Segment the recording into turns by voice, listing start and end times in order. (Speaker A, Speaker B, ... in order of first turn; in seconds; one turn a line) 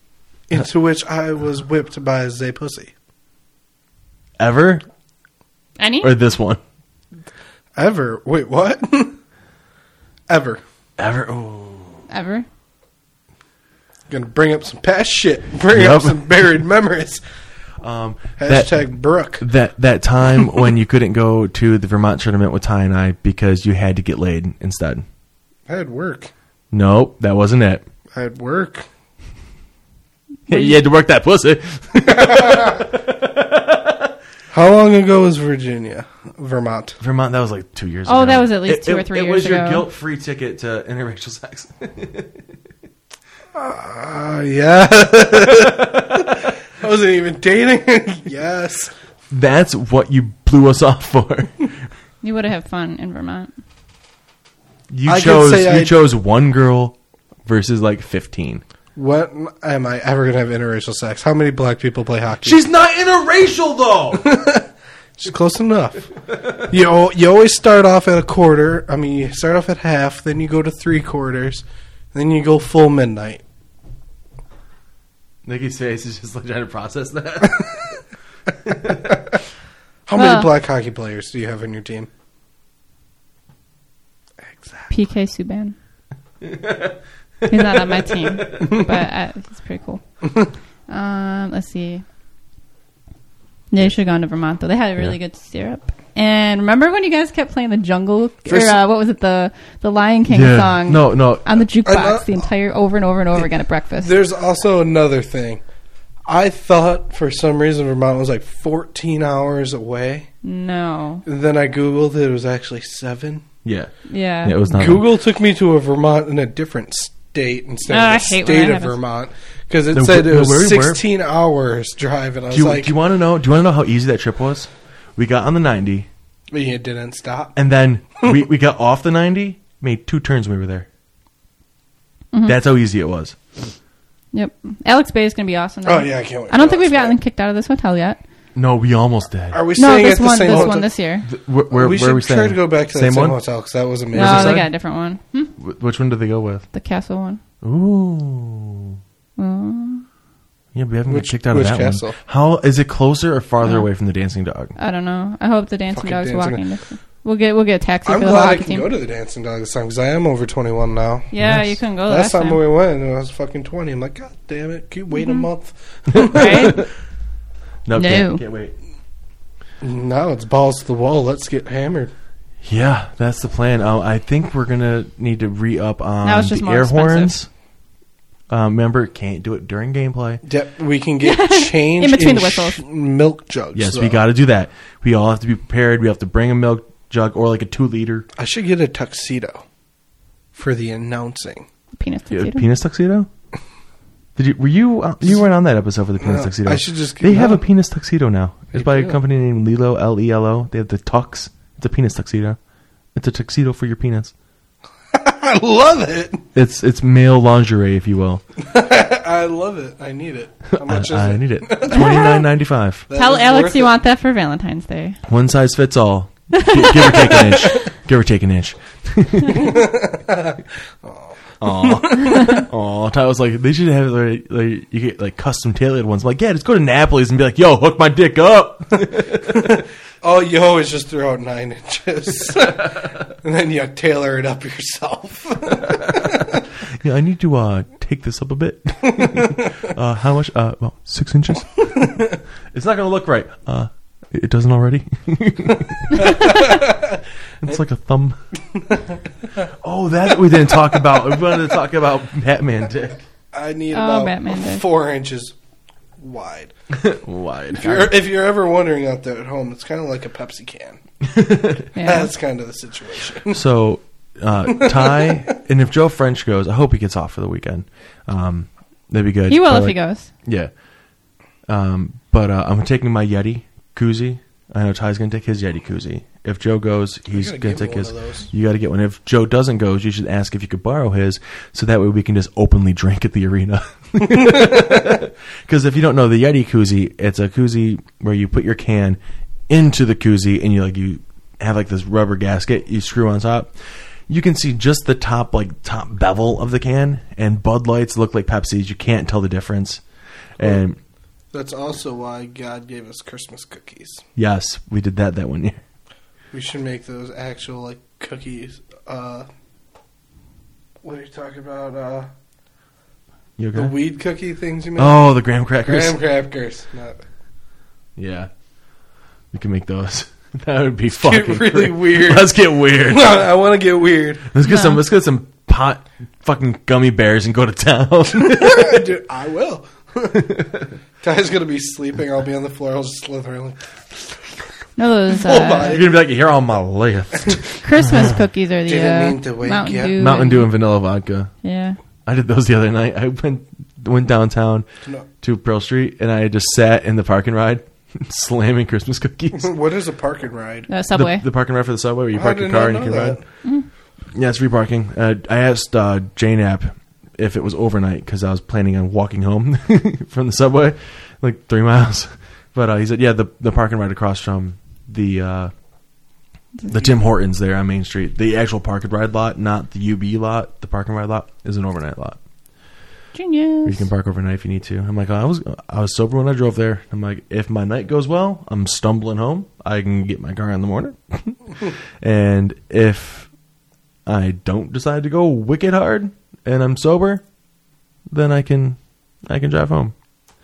Speaker A: 0.5-2.9
Speaker B: 4.4-4.8
Speaker C: 5.8-6.1
Speaker B: 6.0-6.6
Speaker A: 7.8-9.2
Speaker A: 10.3-10.6
Speaker B: 11.0-12.0
Speaker C: 12.1-12.4
Speaker A: 14.1-17.2
Speaker B: 15.7-16.3
Speaker B: 17.8-18.8
Speaker A: 18.4-19.4
Speaker B: 19.4-25.0
Speaker A: 25.7-26.3
Speaker B: 26.7-27.8
Speaker A: 28.1-28.9
Speaker C: 30.5-30.8
Speaker B: 30.5-34.1
Speaker A: 32.3-32.6
Speaker A: 34.5-37.0
Speaker B: 37.0-42.5
Speaker C: 38.0-39.8
Speaker A: 43.5-48.9
Speaker B: 45.3-46.5
Speaker B: 49.3-51.7
Speaker C: 52.2-53.5
Speaker B: 54.9-58.6
Speaker A: 55.0-56.0
Speaker A: 59.0-62.6
Speaker B: 62.4-64.2
Speaker A: 64.1-64.7
Speaker A: 65.2-73.4
Speaker B: 66.3-66.6
Speaker B: 75.4-78.0
Speaker B: 78.6-79.2
Speaker A: 80.1-82.1
Speaker C: 80.2-80.5
Speaker A: 84.4-84.9
Speaker C: 84.9-85.8
Speaker B: 86.4-88.9
Speaker C: 87.5-90.0
Speaker C: 90.9-92.0
Speaker C: 93.7-104.1
Speaker A: 98.5-98.8
Speaker B: 100.3-101.5
Speaker A: 101.8-102.5
Speaker A: 104.0-105.6
Speaker A: 106.2-110.3
Speaker C: 110.4-111.2
Speaker A: 111.2-113.4
Speaker B: 113.6-113.9
Speaker C: 114.1-114.6
Speaker B: 114.4-115.1
Speaker A: 114.7-122.9
Speaker C: 117.9-119.0
Speaker B: 119.9-121.0
Speaker B: 122.5-126.1
Speaker A: 126.5-127.6
Speaker B: 127.5-130.9
Speaker C: 132.3-132.6
Speaker B: 132.4-133.4
Speaker C: 134.3-138.2
Speaker A: 135.8-137.2
Speaker B: 138.5-139.6
Speaker A: 139.5-140.9
Speaker C: 139.8-141.3
Speaker B: 140.4-143.4
Speaker A: 141.7-144.7
Speaker B: 144.1-144.7
Speaker C: 144.1-145.5
Speaker B: 145.6-146.6
Speaker C: 146.7-147.4
Speaker B: 147.6-149.0
Speaker C: 149.4-150.0
Speaker B: 150.7-154.7
Speaker A: 151.1-152.2
Speaker C: 154.8-158.9
Speaker A: 155.9-156.6
Speaker A: 158.0-161.3
Speaker C: 161.3-162.6
Speaker B: 161.4-161.7
Speaker A: 162.1-166.8
Speaker C: 165.1-165.5
Speaker B: 166.1-166.8
Speaker C: 166.2-166.8
Speaker B: 167.8-168.7
Speaker C: 167.9-168.4
Speaker A: 169.8-172.1
Speaker B: 172.6-177.5
Speaker C: 176.2-177.3
Speaker B: 178.5-180.4
Speaker A: 180.4-184.2
Speaker C: 181.2-182.8
Speaker B: 183.7-188.3
Speaker A: 188.4-189.6
Speaker A: 190.5-191.7
Speaker C: 191.9-192.7
Speaker B: 192.3-193.3
Speaker B: 194.3-202.6
Speaker A: 196.2-197.6
Speaker A: 198.7-199.2
Speaker B: 203.1-204.3
Speaker A: 205.1-206.5
Speaker B: 206.5-208.4
Speaker A: 208.6-212.5
Speaker B: 210.8-213.1
Speaker C: 211.9-212.3
Speaker A: 213.1-214.0
Speaker C: 213.1-215.2
Speaker B: 215.3-219.8
Speaker C: 216.5-217.8
Speaker A: 219.5-222.6
Speaker B: 221.6-229.8
Speaker A: 229.5-236.6
Speaker B: 232.6-233.1
Speaker B: 235.8-242.1
Speaker A: 239.2-239.6
Speaker B: 242.7-246.8
Speaker A: 246.4-247.1
Speaker B: 247.6-248.4
Speaker B: 249.8-253.2
Speaker A: 253.5-255.5
Speaker C: 253.9-254.8
Speaker A: 256.2-256.7
Speaker B: 256.9-258.1
Speaker A: 257.7-261.0
Speaker B: 261.2-261.8
Speaker C: 261.9-262.3
Speaker A: 261.9-263.6
Speaker B: 263.5-270.7
Speaker A: 264.7-265.4
Speaker C: 269.5-270.3
Speaker B: 271.7-289.2
Speaker A: 277.3-278.5
Speaker B: 289.7-293.7
Speaker B: 294.3-300.0
Speaker B: 300.6-301.0
Speaker A: 301.5-304.2
Speaker B: 304.4-305.8
Speaker A: 306.5-309.5
Speaker A: 311.0-312.3
Speaker B: 313.6-313.9
Speaker A: 313.8-315.3
Speaker B: 315.0-316.2
Speaker A: 315.8-317.2
Speaker B: 318.2-318.5
Speaker B: 319.5-323.4
Speaker A: 321.2-324.5
Speaker B: 324.5-329.1
Speaker C: 324.6-325.0
Speaker A: 328.4-330.5
Speaker B: 330.3-330.9
Speaker A: 331.2-334.6
Speaker C: 335.0-336.0
Speaker A: 335.4-336.1
Speaker B: 335.5-338.4
Speaker C: 337.8-340.7
Speaker A: 338.9-340.2
Speaker B: 340.1-341.5
Speaker C: 341.6-342.0
Speaker B: 342.2-344.9
Speaker B: 345.4-349.7
Speaker A: 349.6-350.9
Speaker C: 350.9-351.4
Speaker B: 351.1-353.4
Speaker A: 352.3-353.4
Speaker B: 354.3-365.7
Speaker C: 366.8-367.0
Speaker B: 366.9-372.4
Speaker C: 373.3-374.1
Speaker B: 373.8-383.5
Speaker B: 384.2-387.4
Speaker B: 388.3-390.1